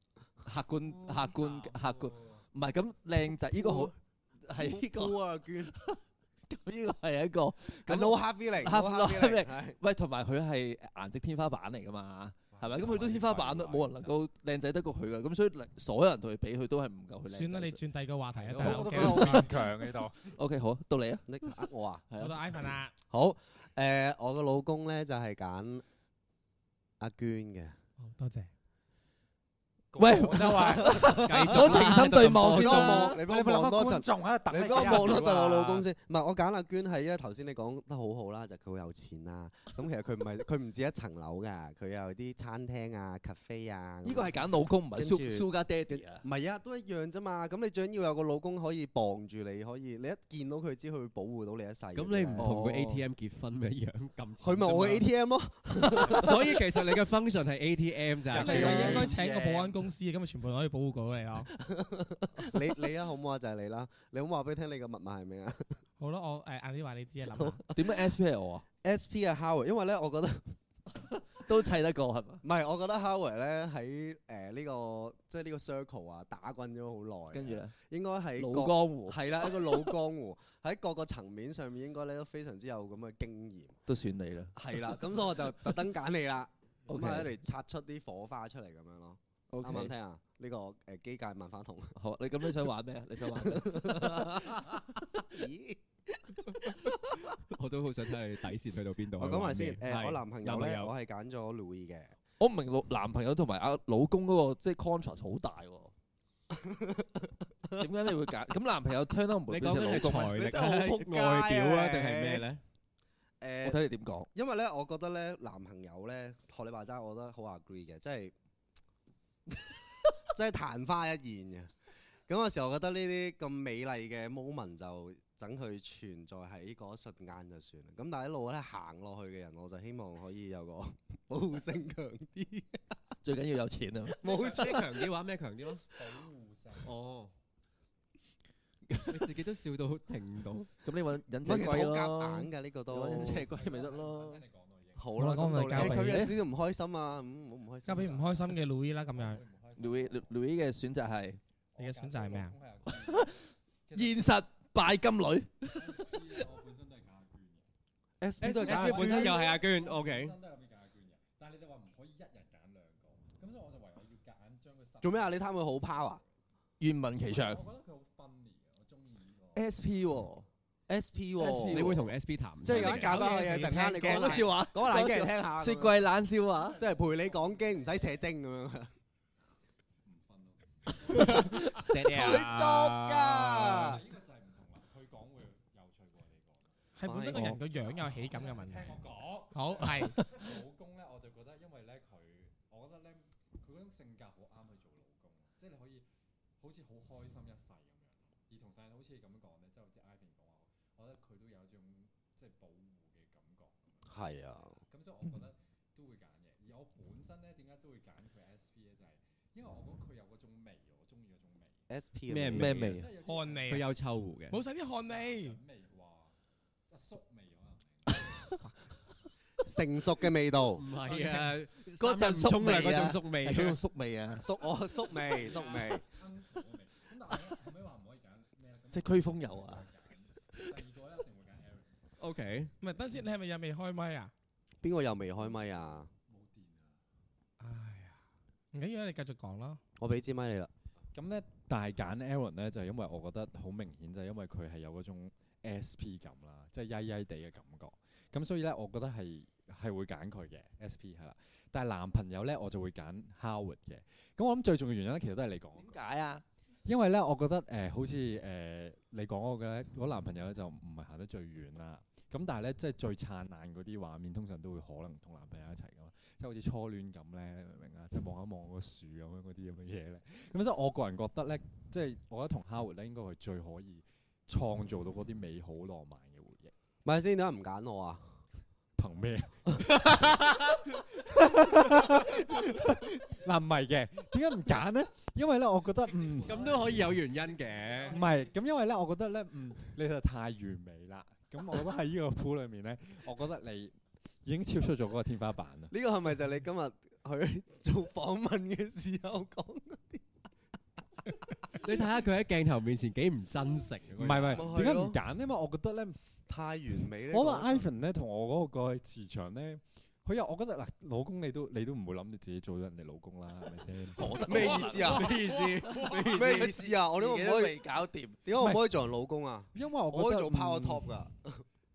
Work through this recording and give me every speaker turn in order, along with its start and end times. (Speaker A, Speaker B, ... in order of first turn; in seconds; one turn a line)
Speaker A: 0.4-17.8
Speaker B: 1.0-2.4
Speaker C: 3.5-3.9
Speaker C: 4.5-5.7
Speaker C: 7.7-9.8
Speaker B: 12.5-14.1
Speaker D: 17.2-19.6
Speaker B: 18.4-20.3
Speaker A: 18.6-22.7
Speaker C: 21.2-22.1
Speaker D: 22.2-22.9
Speaker C: 23.1-25.8
Speaker C: 27.0-27.8
Speaker D: 28.0-28.5
Speaker B: 29.9-31.9
Speaker A: 29.9-33.2
Speaker C: 30.7-52.5
Speaker E: 31.0-33.1
Speaker B: 33.1-35.8
Speaker A: 34.8-35.5
Speaker A: 44.0-46.3
Speaker E: 51.9-55.1
Speaker A: 52.4-53.0
Speaker C: 54.4-56.6
Speaker E: 56.1-59.0
Speaker B: 58.3-59.2
Speaker D: 58.3-61.5
Speaker C: 58.4-59.1
Speaker C: 61.7-65.8
Speaker D: 66.0-67.6
Speaker C: 67.3-68.1
Speaker A: 67.7-68.6
Speaker C: 68.8-70.5
Speaker A: 71.0-72.4
Speaker C: 72.4-83.8
Speaker A: 77.3-77.7
Speaker A: 78.4-79.9
Speaker A: 83.9-84.9
Speaker C: 84.5-96.9
Speaker A: 86.9-87.3
Speaker A: 89.5-89.9
Speaker A: 92.0-94.5
Speaker E: 97.3-100.9
Speaker C: 99.2-102.1
Speaker A: 102.4-105.9
Speaker C: 106.5-107.2
Speaker A: 107.8-110.4
Speaker E: 109.5-112.6
Speaker C: 109.9-112.5
Speaker C: 113.4-118.3
Speaker A: 113.6-114.3
Speaker C: 120.3-121.7
Speaker C: 122.3-132.9
Speaker A: 133.2-134.8
Speaker C: 134.2-135.0
Speaker E: 134.4-135.9
Speaker B: 135.9-136.9
Speaker E: 136.8-137.3
Speaker E: 139.1-140.7
Speaker A: 140.8-144.4
Speaker C: 141.4-143.5
Speaker B: 143.2-145.5
Speaker C: 144.9-148.1
Speaker D: 145.1-146.3
Speaker A: 145.7-146.4
Speaker D: 147.8-149.4
Speaker B: 147.9-150.4
Speaker A: 149.8-151.4
Speaker B: 151.7-154.4
Speaker D: 151.8-152.6
Speaker A: 152.9-153.3
Speaker A: 153.9-156.4
Speaker B: 155.7-157.7
Speaker C: 158.2-159.4
Speaker B: 158.4-166.3
Speaker E: 158.7-160.4
Speaker C: 165.0-166.2
Speaker A: 166.8-167.6
Speaker B: 167.2-169.7
Speaker A: 169.5-170.4
Speaker C: 170.9-172.0
Speaker A: 171.4-172.0
Speaker E: 171.7-173.0
Speaker C: 172.6-176.0
Speaker D: 172.7-174.5
Speaker A: 174.1-176.8
Speaker B: 176.5-178.0
Speaker C: 176.8-178.9
Speaker B: 180.0-181.7
Speaker E: 181.1-183.3
Speaker A: 181.4-182.4
Speaker C: 182.0-184.0
Speaker B: 183.4-186.7
Speaker D: 186.9-190.5
Speaker C: 187.0-187.6
Speaker B: 187.5-196.1
Speaker B: 196.6-211.9
Speaker C: 204.1-204.8
Speaker C: 211.9-212.8
Speaker E: 212.3-213.1
Speaker A: 212.5-213.1
Speaker B: 212.8-213.7
Speaker D: 213.2-213.9
Speaker E: 213.7-214.6
Speaker D: 214.5-215.6
Speaker B: 215.0-216.3
Speaker B: 216.9-218.3
Speaker D: 218.4-218.8
Speaker C: 219.6-220.8
Speaker E: 220.7-223.8
Speaker A: 221.8-224.4
Speaker C: 224.4-226.0
Speaker B: 225.2-232.0
Speaker A: 228.9-229.9
Speaker A: 230.5-230.8
Speaker E: 232.2-232.7
Speaker D: 232.8-234.3
Speaker C: 234.8-236.1
Speaker B: 235.4-237.0
Speaker D: 237.6-239.8
Speaker C: 240.0-240.7
Speaker B: 241.1-256.0
Speaker A: 255.8-256.4
Speaker B: 256.9-276.7
Speaker C: 277.0-278.3
Speaker B: 279.0-287.2
Speaker E: 286.4-288.2
Speaker B: 288.1-295.9
Speaker C: 295.9-300.2
Speaker E: 301.7-304.8
Speaker B: 304.2-306.2
Speaker C: 304.5-305.2
Speaker C: 306.5-307.9
Speaker B: 307.2-315.1
Speaker A: 314.0-318.4
Speaker C: 314.4-317.9
Speaker E: 315.2-316.3
Speaker C: 318.4-321.6
Speaker B: 318.6-318.9
Speaker B: 319.7-321.2